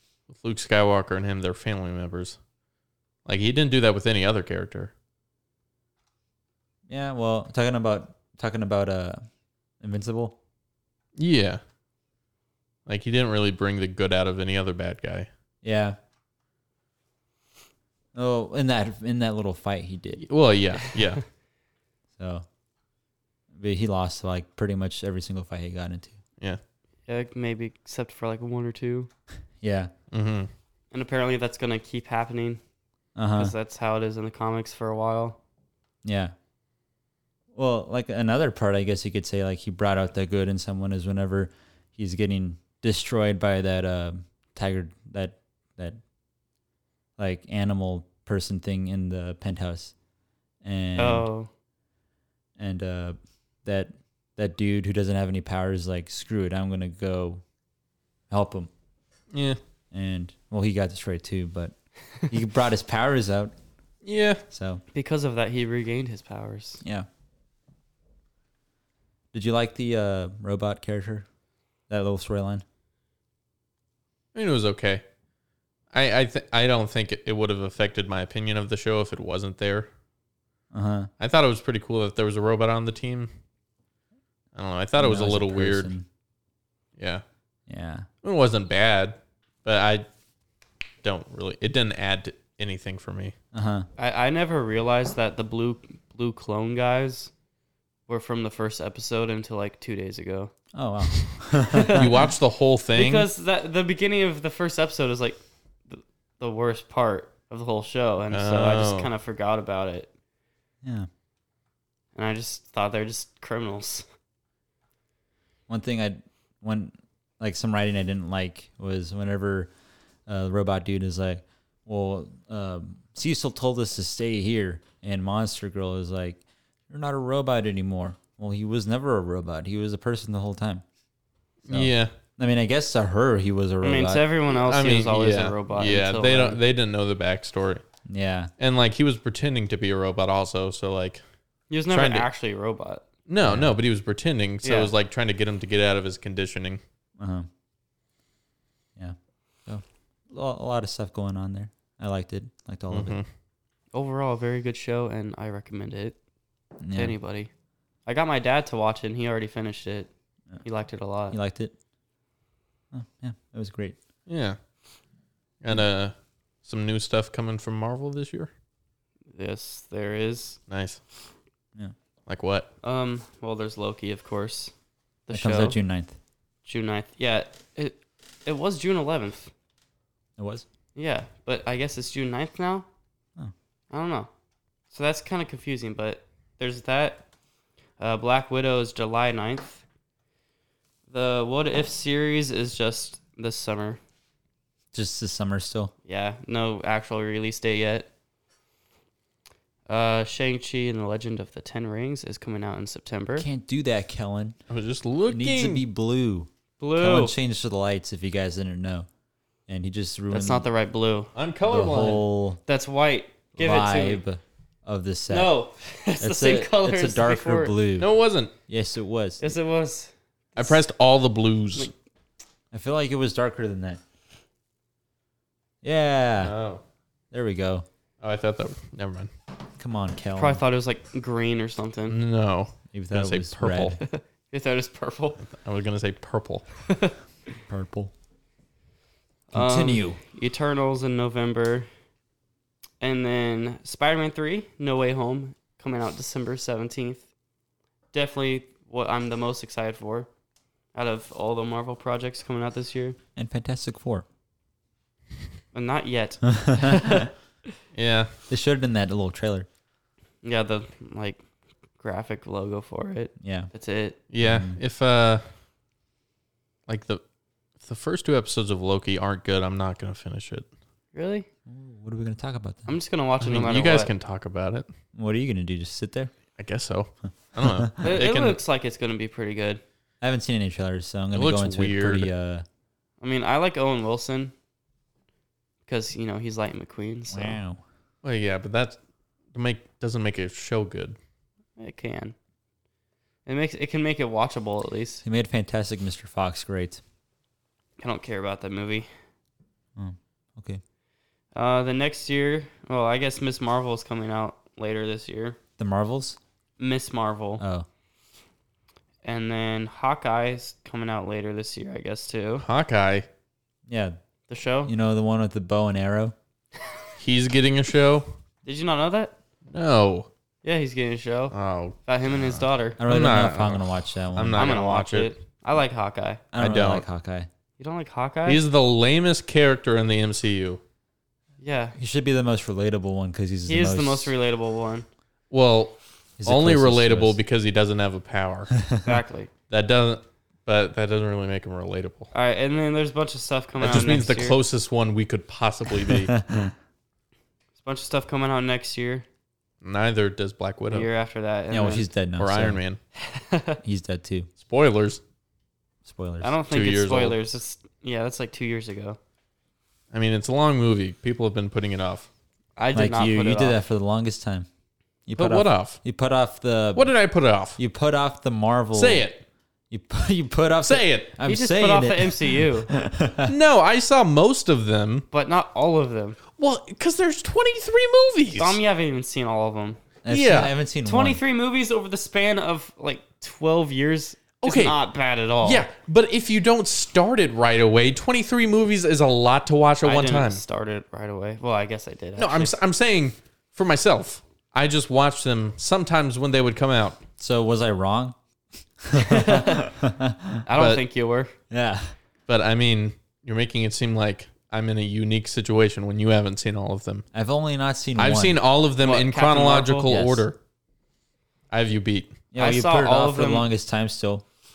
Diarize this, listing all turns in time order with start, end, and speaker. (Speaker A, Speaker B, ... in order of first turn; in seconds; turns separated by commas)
Speaker A: 0.3-2.4, Speaker A: 3.2-4.9, Speaker B: 6.9-9.2, Speaker B: 9.8-10.4, Speaker A: 11.2-11.6, Speaker A: 12.8-15.3, Speaker B: 15.6-16.0, Speaker B: 18.1-20.2, Speaker A: 20.2-21.2, Speaker B: 22.2-22.4, Speaker B: 23.5-26.2, Speaker C: 27.1-29.1, Speaker B: 29.6-29.9, Speaker A: 30.1-30.5, Speaker C: 30.9-32.6, Speaker B: 33.1-33.5, Speaker C: 33.4-35.4, Speaker B: 36.0-36.3, Speaker B: 37.5-46.0, Speaker B: 47.2-49.9, Speaker B: 50.6-51.3, Speaker C: 51.0-51.5, Speaker B: 52.6-57.4, Speaker B: 58.3-58.7, Speaker A: 59.3-59.6, Speaker B: 59.9-61.7, Speaker B: 62.3-63.5, Speaker A: 64.0-64.4, Speaker B: 64.5-64.8, Speaker C: 64.9-66.8, Speaker B: 69.3-71.2, Speaker B: 71.9-72.6, Speaker A: 74.3-75.0, Speaker A: 75.9-79.9, Speaker B: 80.7-81.1, Speaker A: 81.2-83.3, Speaker A: 84.5-85.9, Speaker B: 85.0-86.0, Speaker A: 87.0-87.2, Speaker B: 87.7-88.1, Speaker A: 88.2-90.0, Speaker A: 91.0-93.3, Speaker B: 93.5-93.9, Speaker C: 94.0-97.3, Speaker C: 98.1-100.5, Speaker B: 100.7-102.2, Speaker C: 101.6-102.1, Speaker A: 101.9-103.3, Speaker C: 102.9-110.1, Speaker A: 108.3-109.1, Speaker B: 110.8-111.1, Speaker C: 112.1-114.0, Speaker B: 115.7-119.7, Speaker B: 120.3-130.8, Speaker A: 131.7-132.1, Speaker B: 131.7-134.2, Speaker C: 133.8-136.6, Speaker A: 134.5-137.8, Speaker B: 138.1-138.5, Speaker A: 138.6-141.2, Speaker C: 141.7-143.0, Speaker A: 141.9-142.3, Speaker A: 143.3-146.8, Speaker B: 143.4-143.7, Speaker C: 144.6-144.9, Speaker B: 147.2-147.5, Speaker B: 149.0-153.2, Speaker A: 152.9-153.2, Speaker C: 153.9-156.2, Speaker B: 156.8-157.1, Speaker C: 156.9-157.5, Speaker C: 158.1-160.1, Speaker C: 160.6-161.4, Speaker B: 161.3-161.7, Speaker B: 162.9-164.0, Speaker A: 164.3-164.6, Speaker A: 165.6-168.5, Speaker C: 169.3-170.6, Speaker A: 170.7-171.0, Speaker A: 172.3-172.7, Speaker C: 172.8-174.7, Speaker C: 175.3-175.8, Speaker B: 175.3-176.2, Speaker C: 176.6-179.5, Speaker B: 180.4-180.6, Speaker C: 180.9-182.9, Speaker C: 183.9-184.3, Speaker C: 184.9-187.2, Speaker C: 188.0-189.8, Speaker C: 191.1-194.0, Speaker B: 194.9-195.9, Speaker C: 196.1-198.1, Speaker C: 199.9-203.5, Speaker B: 203.4-204.6, Speaker A: 204.7-205.8, Speaker B: 205.3-209.1, Speaker C: 206.8-207.3, Speaker B: 209.7-210.7, Speaker C: 210.3-211.3, Speaker A: 211.3-212.2, Speaker B: 211.7-212.6, Speaker C: 212.7-214.2, Speaker B: 213.6-215.5, Speaker C: 215.3-217.8, Speaker B: 216.2-218.1, Speaker A: 218.0-218.5, Speaker B: 218.7-219.5, Speaker C: 219.4-220.8, Speaker A: 220.6-221.9, Speaker B: 222.7-224.0, Speaker B: 225.8-226.5, Speaker A: 226.4-226.8, Speaker B: 227.3-227.8, Speaker A: 228.2-229.3, Speaker B: 229.8-230.6, Speaker C: 230.3-232.2, Speaker A: 232.1-234.0, Speaker B: 232.9-234.0, Speaker C: 234.0-235.4, Speaker A: 235.5-236.6, Speaker C: 236.9-237.2, Speaker B: 237.7-238.1, Speaker C: 239.5-241.9, Speaker B: 239.5-240.2, Speaker C: 243.0-247.2, Speaker C: 248.1-250.3, Speaker C: 250.9-253.2, Speaker B: 253.3-254.2, Speaker C: 255.7-257.3, Speaker B: 256.6-257.3, Speaker A: 257.9-258.3, Speaker B: 258.5-259.7, Speaker C: 260.4-261.4, Speaker C: 262.0-264.2, Speaker B: 263.4-263.7, Speaker A: 264.3-265.4, Speaker B: 264.4-264.8, Speaker A: 266.9-267.2, Speaker A: 267.8-270.7, Speaker C: 271.1-271.5, Speaker B: 271.7-272.9, Speaker C: 272.9-274.1, Speaker A: 273.4-274.9, Speaker B: 275.1-276.3, Speaker A: 276.6-278.6, Speaker B: 277.6-277.9, Speaker C: 278.0-279.8, Speaker B: 280.2-282.6, Speaker A: 281.3-282.3, Speaker C: 283.2-284.5, Speaker C: 285.9-287.6, Speaker B: 287.3-287.8, Speaker A: 288.2-289.0, Speaker A: 289.5-291.1, Speaker C: 291.8-292.3, Speaker C: 293.4-295.2, Speaker B: 295.2-297.0, Speaker C: 298.0-299.1, Speaker B: 299.9-300.8, Speaker C: 301.5-305.6, Speaker B: 305.8-306.4, Speaker C: 306.8-307.6, Speaker B: 307.6-307.9, Speaker C: 309.2-312.6, Speaker A: 312.6-313.3, Speaker B: 313.9-314.1, Speaker C: 314.5-314.9, Speaker B: 314.9-316.3, Speaker A: 317.2-318.3, Speaker C: 318.6-319.3, Speaker A: 319.7-320.3, Speaker C: 320.6-323.0, Speaker A: 321.5-325.3, Speaker B: 323.0-324.7, Speaker C: 324.6-326.4, Speaker B: 326.5-327.5, Speaker A: 326.6-327.0, Speaker C: 327.8-328.6, Speaker A: 328.4-330.8, Speaker C: 331.6-332.0, Speaker B: 332.0-334.3, Speaker C: 333.7-335.1, Speaker A: 335.5-338.8, Speaker B: 336.4-337.4, Speaker C: 339.0-339.5, Speaker A: 339.7-342.3, Speaker C: 342.3-344.6, Speaker A: 343.8-346.4, Speaker B: 346.3-346.7, Speaker C: 347.8-349.2, Speaker A: 349.8-351.1, Speaker C: 350.9-352.1, Speaker B: 351.7-352.8, Speaker A: 352.4-353.0, Speaker C: 353.1-353.8, Speaker B: 353.8-354.5, Speaker A: 354.6-355.2, Speaker B: 356.0-356.5, Speaker C: 356.4-359.2, Speaker A: 356.7-357.4, Speaker A: 360.1-362.3, Speaker C: 362.8-363.8, Speaker B: 362.9-364.7, Speaker B: 365.2-367.1, Speaker A: 365.4-366.0, Speaker A: 366.9-367.8, Speaker B: 367.8-369.2, Speaker A: 368.9-369.4, Speaker B: 369.9-373.5, Speaker A: 370.8-371.3, Speaker C: 371.4-372.9, Speaker A: 373.4-375.3, Speaker C: 375.3-376.4, Speaker A: 376.6-378.8, Speaker C: 378.6-380.0, Speaker B: 380.2-381.4, Speaker A: 380.3-380.7, Speaker C: 381.0-385.9, Speaker A: 384.6-385.0, Speaker A: 385.6-390.6, Speaker C: 390.0-392.7, Speaker A: 392.4-397.2, Speaker B: 397.4-398.4, Speaker B: 399.0-400.6, Speaker C: 399.1-399.9, Speaker C: 400.6-401.5, Speaker A: 400.8-401.0, Speaker B: 401.7-402.1, Speaker A: 402.5-407.2, Speaker B: 407.3-408.6, Speaker A: 408.2-410.6, Speaker C: 409.0-410.1, Speaker B: 410.1-410.4, Speaker A: 411.7-412.4, Speaker B: 412.5-414.4, Speaker C: 412.6-413.6